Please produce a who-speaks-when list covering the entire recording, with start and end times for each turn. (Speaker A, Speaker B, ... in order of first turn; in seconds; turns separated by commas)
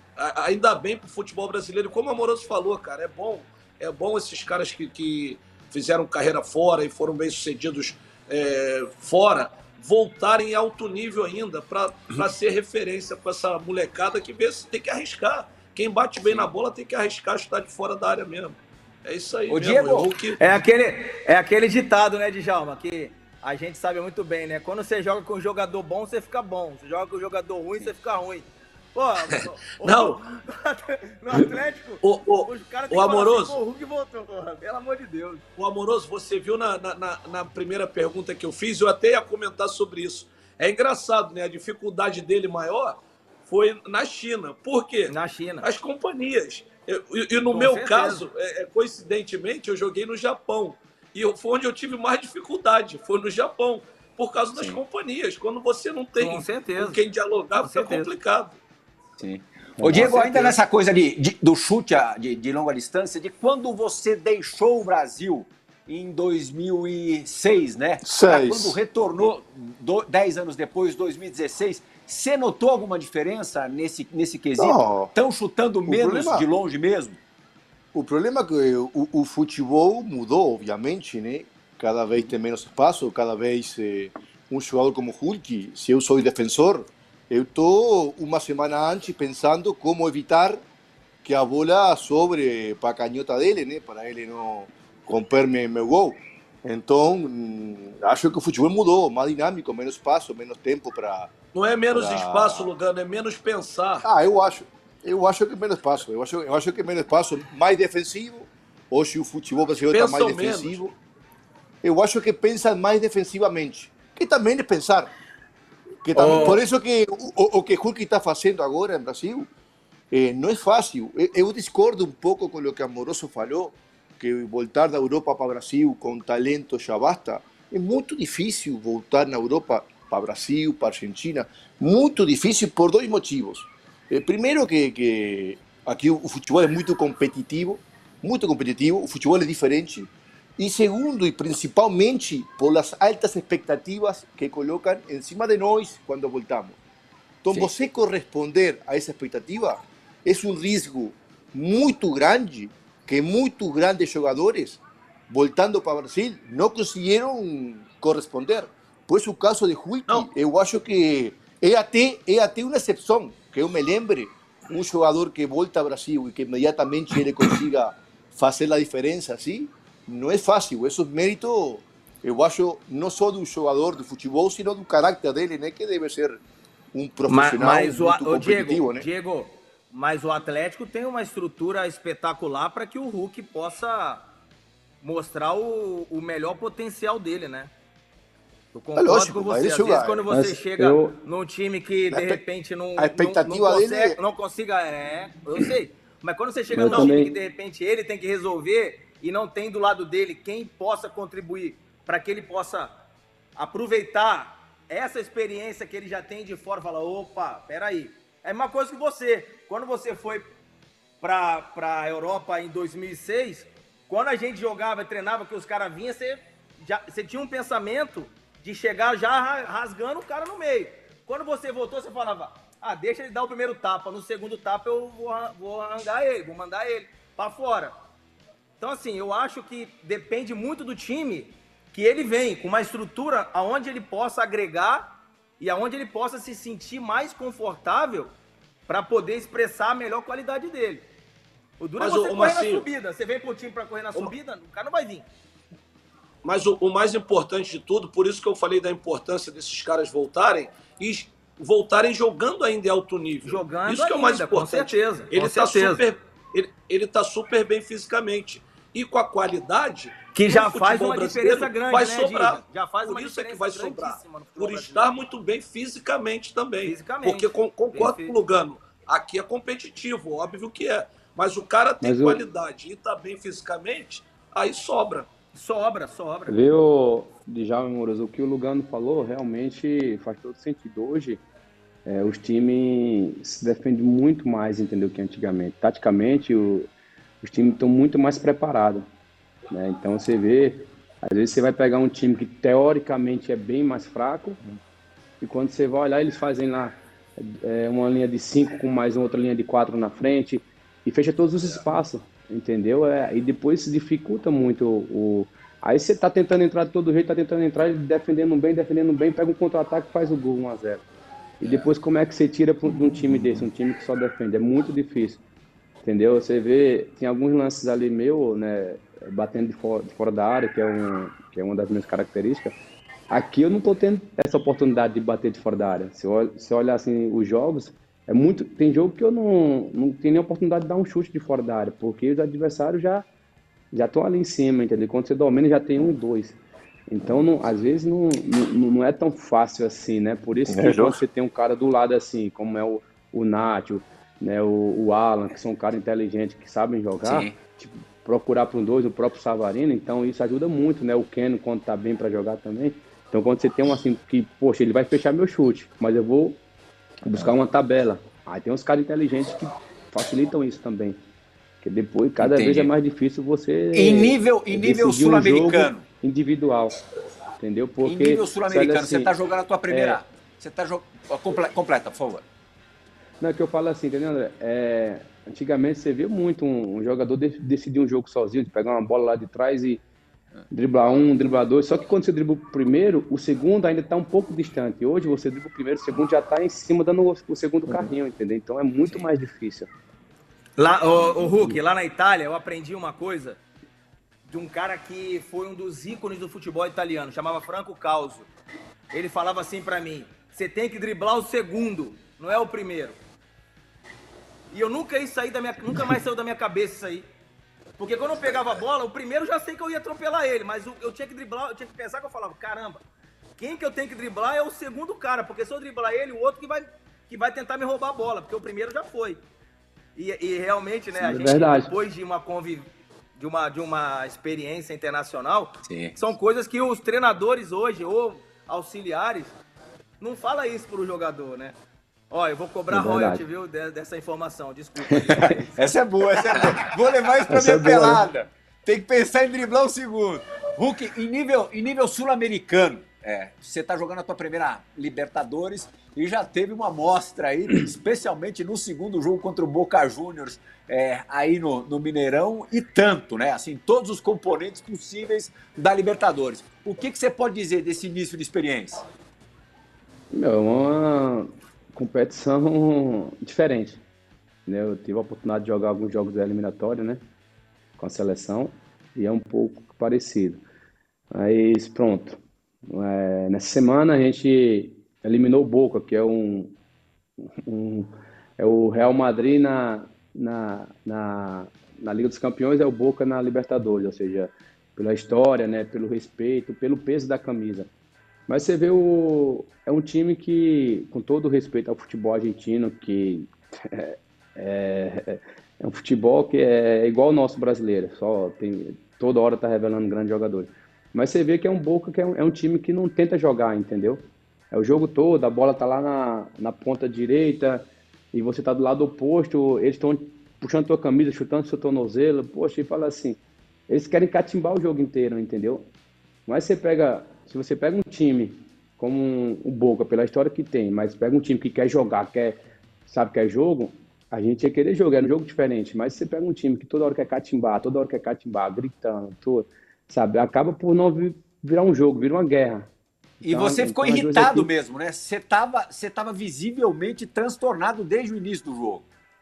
Speaker A: 0.2-20.4, Speaker B: 16.2-16.5, Speaker B: 19.5-20.1, Speaker C: 20.4-35.4, Speaker A: 29.3-30.2, Speaker A: 32.0-33.6, Speaker A: 35.6-58.6, Speaker C: 45.1-45.7, Speaker C: 47.5-48.2, Speaker B: 54.5-54.8, Speaker C: 56.2-57.0, Speaker C: 57.6-58.1, Speaker B: 59.2-77.2, Speaker D: 59.8-60.5, Speaker D: 68.0-68.8, Speaker D: 74.6-75.1, Speaker D: 75.9-76.5, Speaker D: 77.9-90.6, Speaker D: 91.2-101.3, Speaker A: 101.5-104.1, Speaker D: 101.9-102.7, Speaker D: 104.0-110.9, Speaker A: 109.9-110.9, Speaker D: 111.8-115.1, Speaker D: 116.0-119.5, Speaker D: 120.1-146.8, Speaker D: 147.4-176.4, Speaker D: 176.9-179.1, Speaker C: 177.3-184.2, Speaker C: 185.0-187.7, Speaker C: 188.7-202.9, Speaker D: 189.0-190.2, Speaker E: 190.3-191.2, Speaker D: 192.1-192.4, Speaker D: 193.0-194.2, Speaker E: 196.7-197.3, Speaker C: 203.6-210.5, Speaker C: 211.2-227.9, Speaker C: 228.8-235.1, Speaker C: 235.6-238.3, Speaker C: 238.9-241.1, Speaker C: 241.8-245.3, Speaker A: 242.0-242.9, Speaker A: 246.4-275.3, Speaker C: 253.4-256.0, Speaker C: 260.3-265.2, Speaker C: 266.9-268.4, Speaker E: 272.0-272.4, Speaker C: 275.6-276.6, Speaker E: 276.5-281.4, Speaker E: 282.1-286.9, Speaker E: 287.4-289.1, Speaker E: 289.7-294.6, Speaker E: 295.4-311.0, Speaker E: 311.6-315.4, Speaker E: 316.0-322.8, Speaker E: 323.3-333.3, Speaker E: 333.9-356.6, Speaker D: 340.7-341.2, Speaker B: 347.2-347.6, Speaker E: 357.2-361.2, Speaker E: 361.8-367.0, Speaker B: 362.4-362.9, Speaker B: 363.9-366.1, Speaker E: 367.6-369.3, Speaker B: 368.0-372.4, Speaker E: 369.9-370.2, Speaker E: 373.4-380.0, Speaker E: 380.7-389.9, Speaker C: 390.8-393.6, Speaker C: 394.5-398.5, Speaker C: 399.1-403.2, Speaker C: 404.7-407.3, Speaker C: 408.0-413.0, Speaker C: 413.6-419.4, Speaker C: 420.2-429.6, Speaker E: 421.1-421.9, Speaker B: 425.9-426.2, Speaker C: 430.2-431.8, Speaker C: 432.3-435.9, Speaker E: 432.9-433.4, Speaker E: 435.1-435.6, Speaker B: 435.8-459.1, Speaker E: 437.5-438.2, Speaker E: 460.3-464.0, Speaker E: 464.7-467.2, Speaker E: 468.0-470.6, Speaker E: 471.3-476.8, Speaker E: 477.6-487.9, Speaker E: 488.5-515.9, Speaker E: 516.5-532.9, Speaker B: 533.4-539.0, Speaker E: 533.4-534.7